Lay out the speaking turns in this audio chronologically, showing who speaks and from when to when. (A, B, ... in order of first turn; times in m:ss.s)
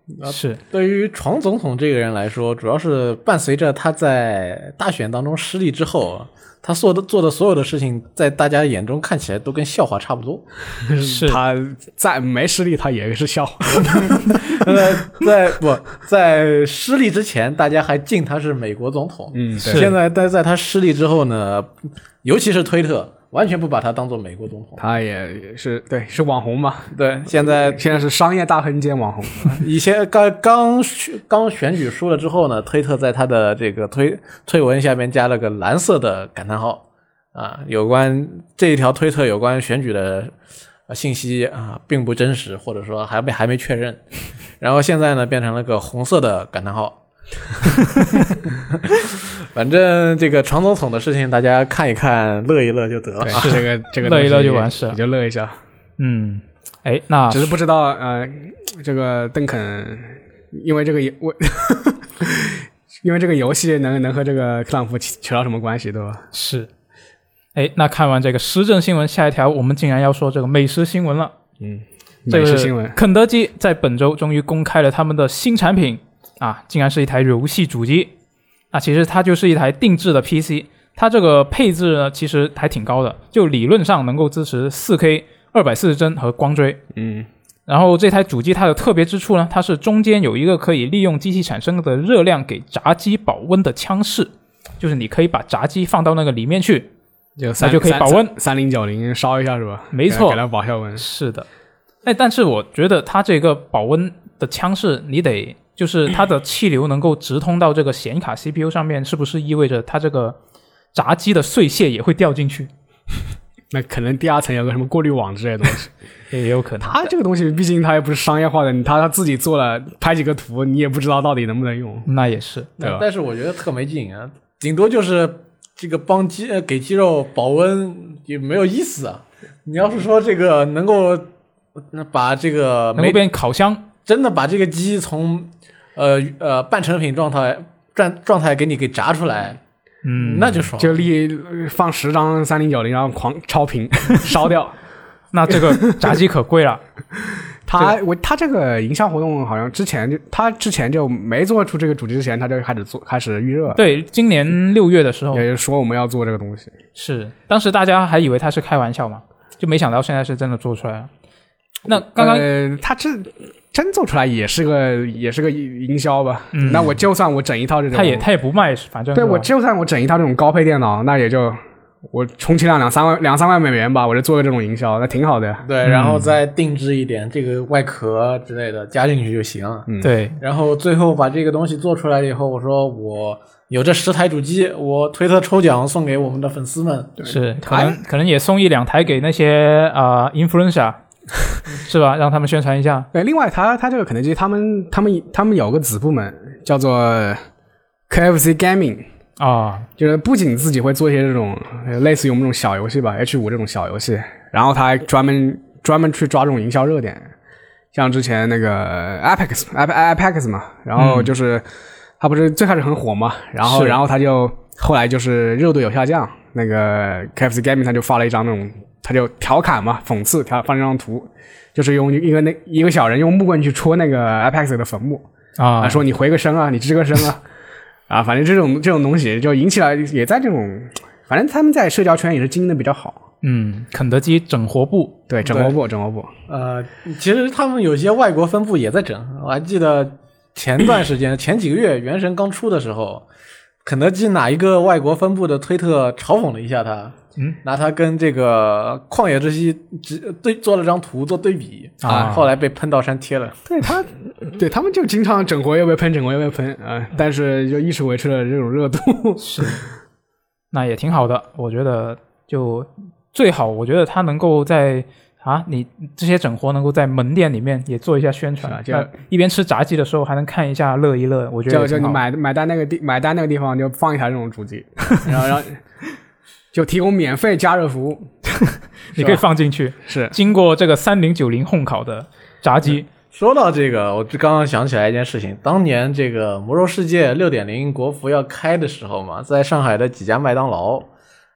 0:00.2-0:10.4 A
0:00.2-0:00.6 B
0:10.8-0:15.2 C
0:11.0-0:11.4 B
0:13.7-0:21.7 A
0:19.3-0:19.9 C
0:19.6-0:19.9 B
0:22.2-0:24.8 A
0:24.8-0:29.6 C
0:26.9-0:27.8 A
0:29.4-0:36.8 A
0:37.3-0:40.3 A
0:40.9-0:44.0 A
0:44.6-0:47.0 A
0:47.5-0:48.1 A
0:48.7-0:53.6 A
0:53.2-0:55.6 C
0:53.3-0:55.0 B
0:56.0-0:57.5 B
0:57.3-1:06.2 C
1:06.3-1:06.7 B
1:07.5-1:11.3 B
1:11.6-1:13.0 C
1:12.3-1:18.1 B
1:18.7-1:26.8 B
1:26.9-1:27.3 C
1:27.7-1:36.9 B
1:37.4-1:41.0 C
1:37.6-1:38.3 B
1:39.9-1:40.4 B
1:41.0-1:41.4 B
1:42.0-1:50.4 B
1:50.9-1:52.7 B
1:53.7-1:55.9 C
1:56.3-1:57.1 B
1:56.8-2:02.1 C
2:02.0-2:02.7 B
2:02.8-2:11.3 A
2:11.9-2:13.2 A
2:13.0-2:13.8 B
2:14.0-2:19.6 A
2:20.0-2:20.6 B
2:20.2-2:21.0 A
2:20.8-2:24.8 C
2:25.3-2:26.8 B
2:25.5-2:26.1 C
2:27.6-2:33.8 C
2:33.7-2:35.4 B
2:35.3-2:36.7 C
2:36.9-2:41.1 B
2:41.8-2:42.5 B
2:41.9-2:48.3 C
2:46.5-2:46.9 B
2:47.9-2:49.5 B
2:49.1-2:55.6 C
2:55.6-2:59.9 A
2:55.8-2:56.3 B
3:00.0-3:00.4 B
3:00.4-3:07.2 A
3:07.2-3:08.0 C
3:07.3-3:11.0 B
3:11.7-3:13.1 B
3:13.1-3:17.4 C
3:18.1-3:19.0 C
3:19.4-3:19.9 B
3:20.0-3:27.3 C
3:27.9-3:31.6 C
3:31.0-3:31.3 B
3:32.2-3:45.3 C
3:33.6-3:34.0 B
3:45.6-3:46.0 B
3:45.8-3:47.4 C
3:48.1-3:53.2 C
3:53.4-3:55.2 B
3:55.3-3:56.3 C
3:55.4-3:55.7 A
3:56.5-4:03.2 A
4:03.8-4:13.6 A
4:12.0-4:12.4 B
4:12.1-4:12.4 C
4:13.7-4:19.7 C
4:19.4-4:19.8 B
4:20.7-4:32.2 B
4:28.6-4:29.1 C
4:31.7-4:35.8 C
4:36.7-4:38.3 C
4:39.1-4:39.4 C
4:39.1-4:43.1 B
4:40.0-4:40.3 C
4:43.3-4:51.1 A